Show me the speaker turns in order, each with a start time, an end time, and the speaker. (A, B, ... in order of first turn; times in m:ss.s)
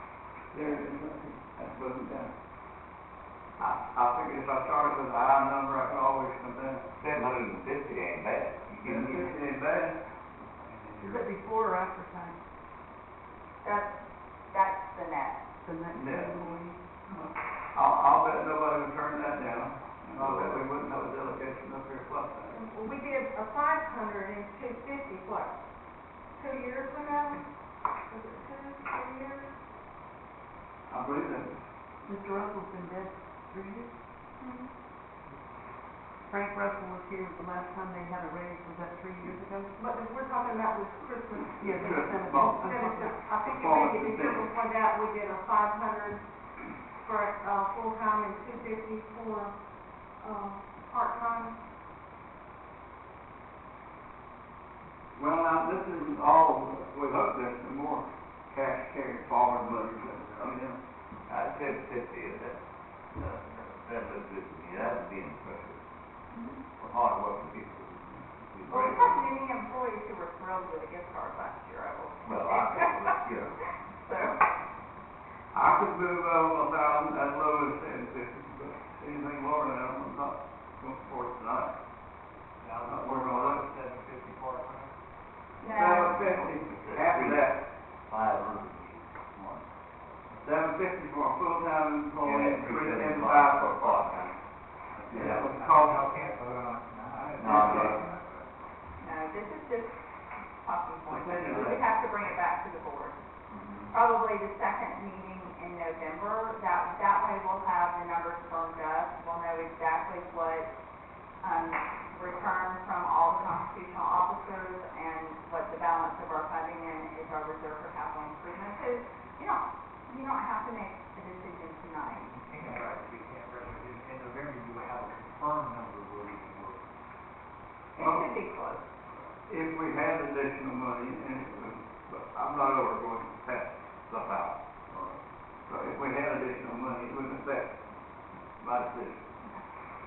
0:00.5-0:02.3 A
0:03.6-0:06.8 A
0:07.0-0:09.4 B
0:08.8-0:10.0 A
0:10.6-0:11.2 A
0:11.0-0:12.4 C
0:13.6-0:14.0 D
0:14.5-0:15.4 D
0:15.6-0:16.8 C
0:15.9-0:16.5 A
0:17.1-0:22.6 A
0:20.1-0:20.6 B
0:22.5-0:25.5 E
0:26.4-0:27.4 E
0:28.1-0:29.5 E
0:30.9-0:31.6 A
0:32.1-0:33.9 C
0:34.4-0:34.6 D
0:36.3-0:39.7 C
0:39.8-0:46.2 E
0:41.6-0:42.6 A
0:41.6-0:43.2 C
0:43.4-0:44.5 A
0:47.0-0:49.5 E
0:50.2-0:51.6 E
0:55.1-1:00.8 A
1:01.3-1:02.6 B
1:03.1-1:05.8 B
1:06.3-1:06.6 D
1:06.8-1:09.3 B
1:08.7-1:13.2 D
1:12.2-1:13.5 B
1:14.0-1:14.4 D
1:15.5-1:21.7 A
1:22.6-1:24.9 F
1:22.8-1:23.7 A
1:25.6-1:26.2 D
1:25.7-1:27.6 A
1:26.0-1:27.5 B
1:28.1-1:29.6 B
1:30.4-1:34.2 A
1:32.2-1:34.3 B
1:35.0-1:38.5 F
1:35.1-1:36.3 A
1:35.2-1:35.4 B
1:37.1-1:38.1 A
1:37.4-1:38.0 B
1:39.0-1:40.0 D
1:40.6-1:43.2 D
1:41.1-1:41.8 A
1:43.5-1:43.9 B
1:43.9-1:50.7 D
1:51.4-2:02.4 D
2:02.3-2:06.8 F
2:07.9-2:08.8 D
2:08.0-2:08.2 A
2:09.5-2:14.6 A
2:15.7-2:17.7 A
2:18.6-2:19.3 A